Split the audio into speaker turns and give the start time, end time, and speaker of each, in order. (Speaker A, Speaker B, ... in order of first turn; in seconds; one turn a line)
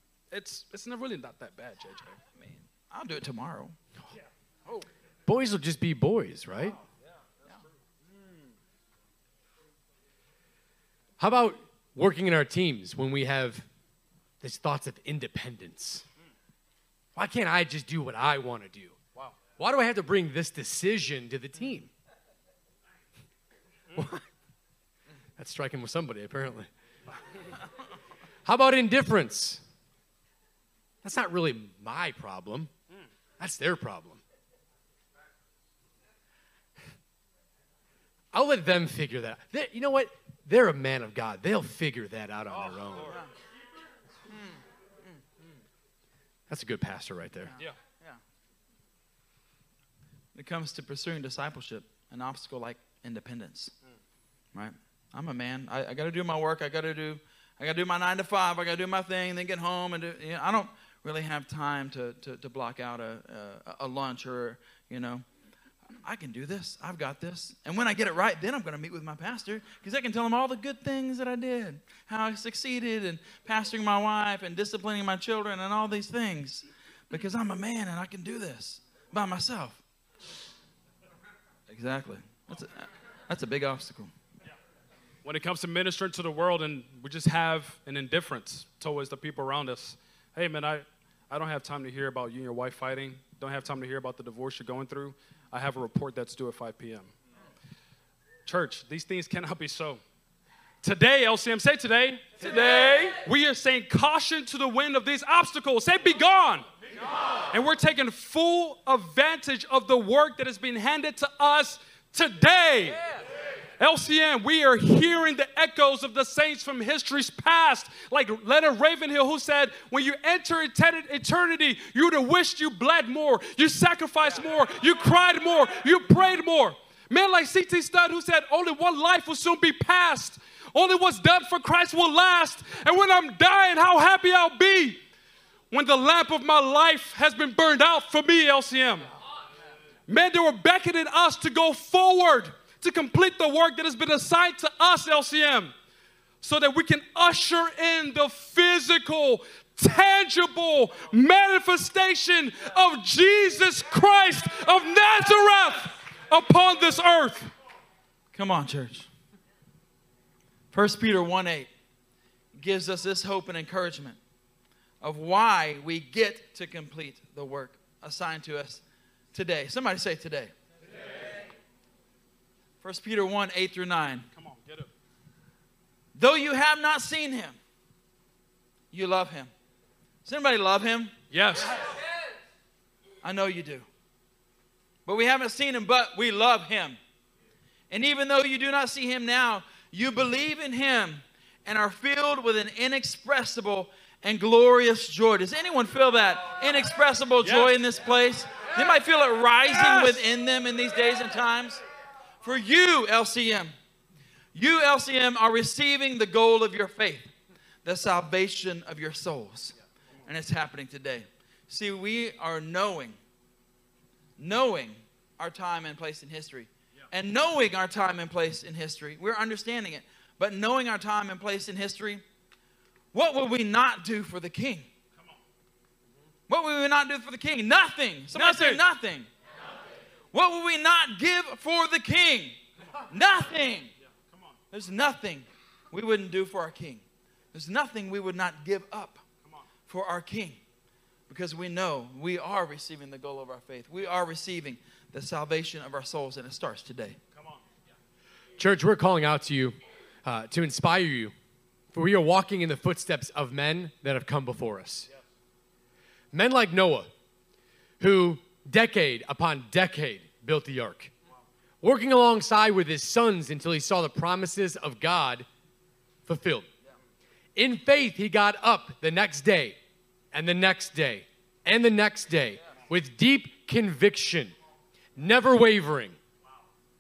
Speaker A: 0.3-2.2
Speaker B: 2.4-3.8
Speaker C: 5.3-6.8
Speaker C: 11.2-13.7
Speaker C: 14.4-16.1
Speaker C: 17.1-19.0
Speaker C: 19.6-21.9
Speaker C: 23.9-24.2
Speaker C: 25.4-26.7
Speaker C: 28.4-29.6
Speaker C: 31.0-32.7
Speaker C: 33.4-34.2
Speaker C: 38.3-43.2
Speaker A: 42.7-43.1
Speaker B: 44.3-44.5
Speaker C: 46.5-47.5
Speaker B: 47.5-48.2
Speaker B: 50.4-53.7
Speaker B: 54.5-65.2
Speaker B: 66.0-79.8
Speaker B: 81.7-84.1
Speaker A: 85.2-97.1
Speaker A: 98.5-100.0
Speaker A: 100.8-106.7
Speaker A: 107.5-113.0
Speaker A: 113.8-135.0
Speaker A: 135.7-139.1
Speaker A: 140.1-145.7
Speaker A: 146.4-157.5
Speaker B: 158.3-159.1
Speaker B: 160.7-161.7
Speaker B: 162.6-164.2
Speaker B: 165.0-168.8
Speaker B: 169.3-170.5
Speaker B: 172.8-174.3
Speaker A: 174.3-174.9
Speaker B: 176.2-177.6
Speaker B: 178.9-179.5
Speaker B: 180.2-181.1
Speaker A: 181.3-181.9
Speaker B: 183.2-183.9
Speaker B: 185.1-187.0
Speaker B: 187.9-201.8
Speaker A: 197.4-197.8
Speaker A: 199.7-200.2
Speaker B: 202.4-203.7
Speaker B: 204.6-207.3
Speaker B: 207.8-213.2
Speaker B: 214.4-222.2
Speaker B: 223.1-224.9
Speaker B: 226.5-229.3
Speaker A: 228.3-228.8
Speaker B: 230.3-232.6
Speaker B: 233.1-233.9
Speaker B: 234.7-237.0
Speaker B: 237.5-239.2
Speaker B: 239.9-240.6
Speaker B: 241.3-247.2
Speaker C: 248.6-251.3
Speaker C: 251.9-255.1
Speaker C: 256.3-257.1
Speaker C: 258.0-261.1
Speaker C: 261.8-265.5
Speaker C: 266.3-266.7
Speaker C: 267.6-269.8
Speaker C: 270.3-274.5
Speaker C: 275.2-276.2